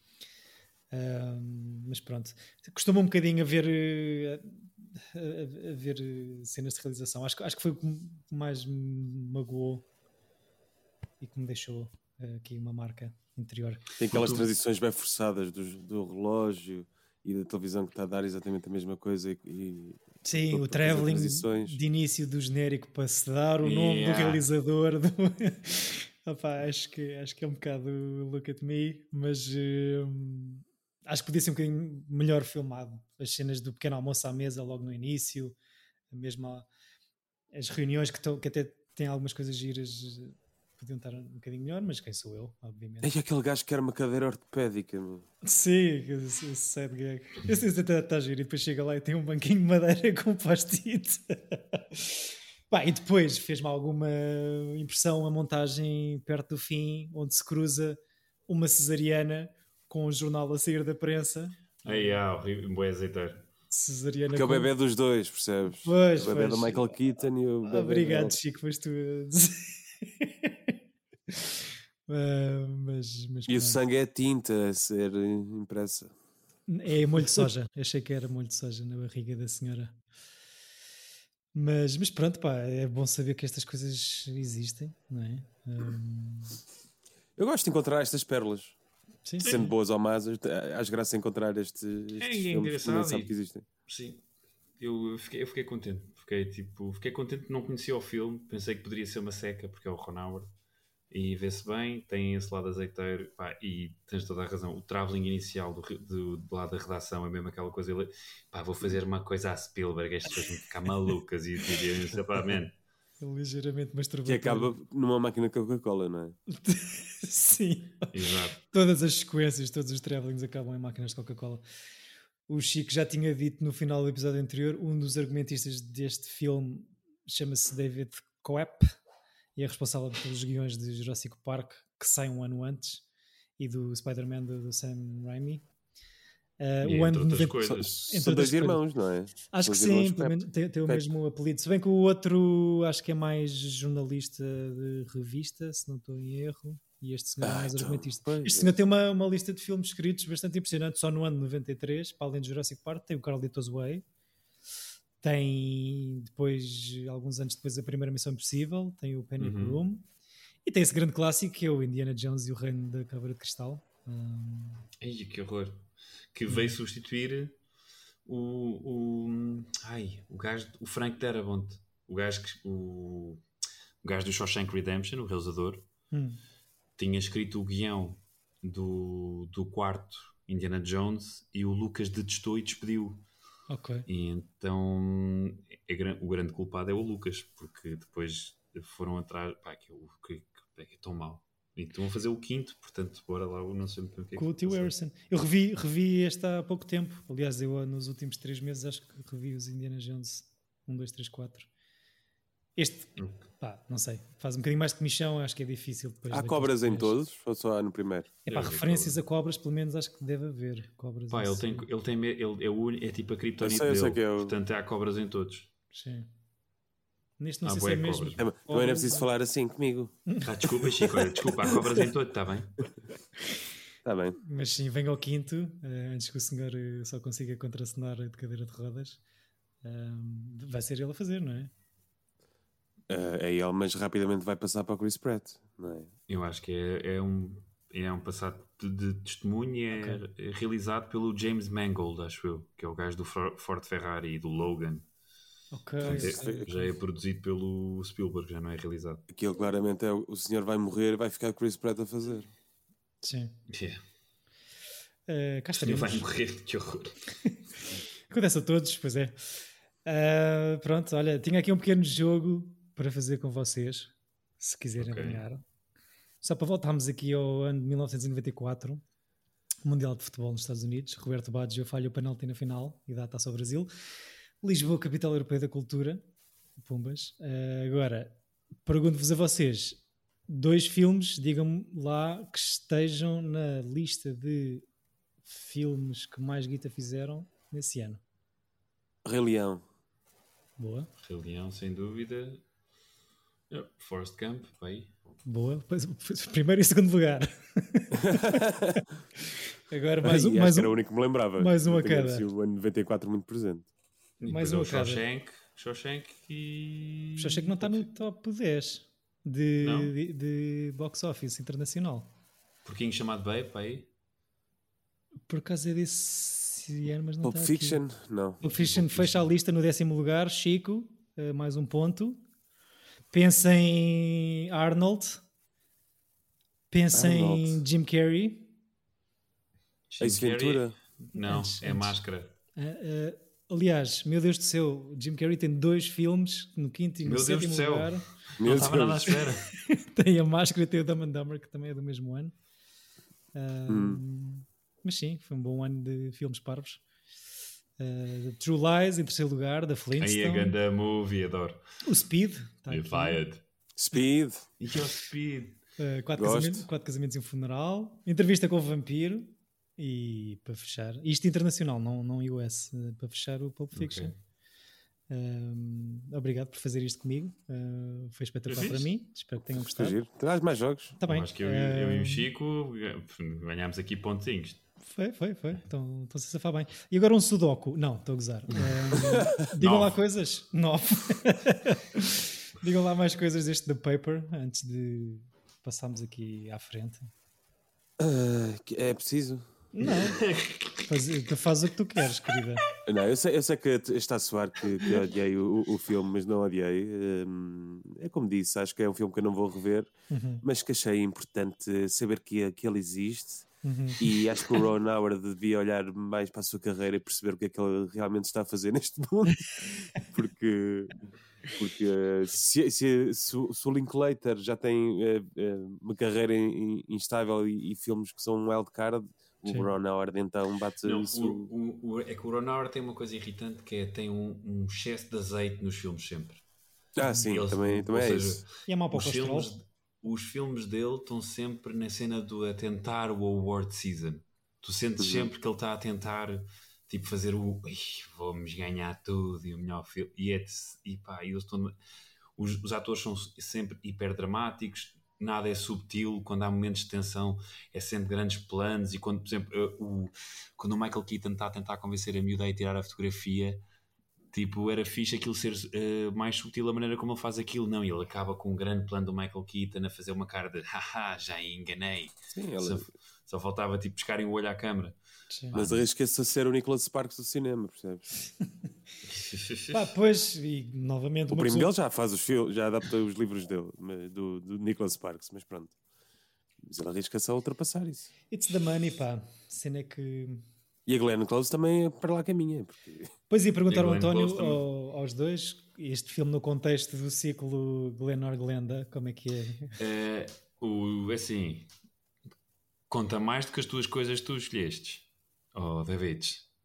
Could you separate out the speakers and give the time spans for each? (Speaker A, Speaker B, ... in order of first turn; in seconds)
Speaker A: 0.9-9.8, 11.2-13.8, 20.2-35.5, 36.1-36.7, 37.5-43.1, 45.4-62.2, 63.7-64.7, 65.8-66.9, 67.6-70.7, 71.3-73.8, 76.7-80.0, 81.5-86.6, 89.2-89.5, 113.2-114.7, 116.5-121.6, 122.5-128.9, 129.6-133.0, 133.6-135.6, 136.6-138.8, 139.5-154.0, 155.2-160.0, 160.6-164.8, 166.5-166.7, 176.1-176.4, 183.7-184.1, 194.4-201.7, 202.8-207.1, 208.5-211.8, 215.9-216.3, 217.4-219.3, 224.4-229.2, 229.8-231.7, 239.9-240.2, 245.7-246.9, 253.2-253.5, 255.3-256.2, 258.3-265.6, 266.4-269.0, 269.8-273.9, 274.6-276.2, 276.8-284.9, 285.4-288.2, 290.8-291.1, 295.4-301.0, 301.6-302.5, 304.5-305.2, 307.4-312.3, 315.5-318.0, 318.6-322.4, 323.3-325.4, 326.9-328.7, 331.3-332.1, 332.8-338.2, 339.3-342.5, 343.5-347.0, 348.0-350.7, 352.0-353.4, 356.0-364.3, 365.3-370.1, 371.2-372.5, 375.0-387.3, 389.9-390.4, 391.1-392.8, 400.3-400.6, 403.8-404.2, 427.2-427.5, 428.9-429.7, 465.5-465.8, 469.9-471.9, 478.5-480.6, 483.5-490.0
Speaker B: 14.0-21.8, 43.0-45.2, 64.3-68.4, 73.5-76.1, 87.4-88.8, 89.4-93.7, 114.2-116.4, 137.7-141.0, 147.4-148.7, 206.3-208.3, 213.6-214.5, 218.4-220.2, 224.0-224.4, 233.1-236.1, 246.0-246.7, 249.3-252.5, 289.2-289.8, 298.2-299.0, 300.2-303.9, 317.4-318.6, 327.1-327.8, 330.2-330.9, 338.6-339.4, 343.9-344.2, 354.0-354.7, 356.4-356.9, 369.7-371.2, 388.2-390.3, 393.0-400.1, 400.6-403.7, 404.2-411.2, 411.7-421.7, 427.1-428.6, 435.2-435.5, 462.5-463.1, 465.7-468.3, 471.5-475.9, 476.8-478.3, 481.1-483.3
Speaker C: 14.1-14.5, 23.6-24.4, 61.9-63.5, 89.4-89.7, 92.2-93.3, 93.8-94.2, 94.8-100.5, 101.1-112.7, 118.1-118.6, 136.8-138.0, 159.4-159.8, 165.0-167.6, 168.2-173.4, 174.0-175.8, 177.0-183.2, 184.1-194.9, 208.5-209.2, 211.3-215.7, 217.6-218.4, 220.4-222.8, 236.3-245.1, 246.0-249.2, 253.7-254.0, 255.7-257.2, 265.0-265.4, 291.2-292.6, 293.7-295.1, 304.4-308.1, 309.8-310.1, 312.8-314.1, 318.6-319.4, 330.1-332.5, 337.2-339.7, 350.2-351.8, 352.9-353.6, 354.8-355.8, 363.9-364.3, 368.7-369.1, 371.2-374.8, 378.7-380.2, 390.0-391.2, 421.0-426.6, 427.5-441.9, 442.6-453.8, 454.5-465.1, 465.7-466.0, 469.2-470.1, 483.9-484.8, 490.0-491.9, 493.1-496.7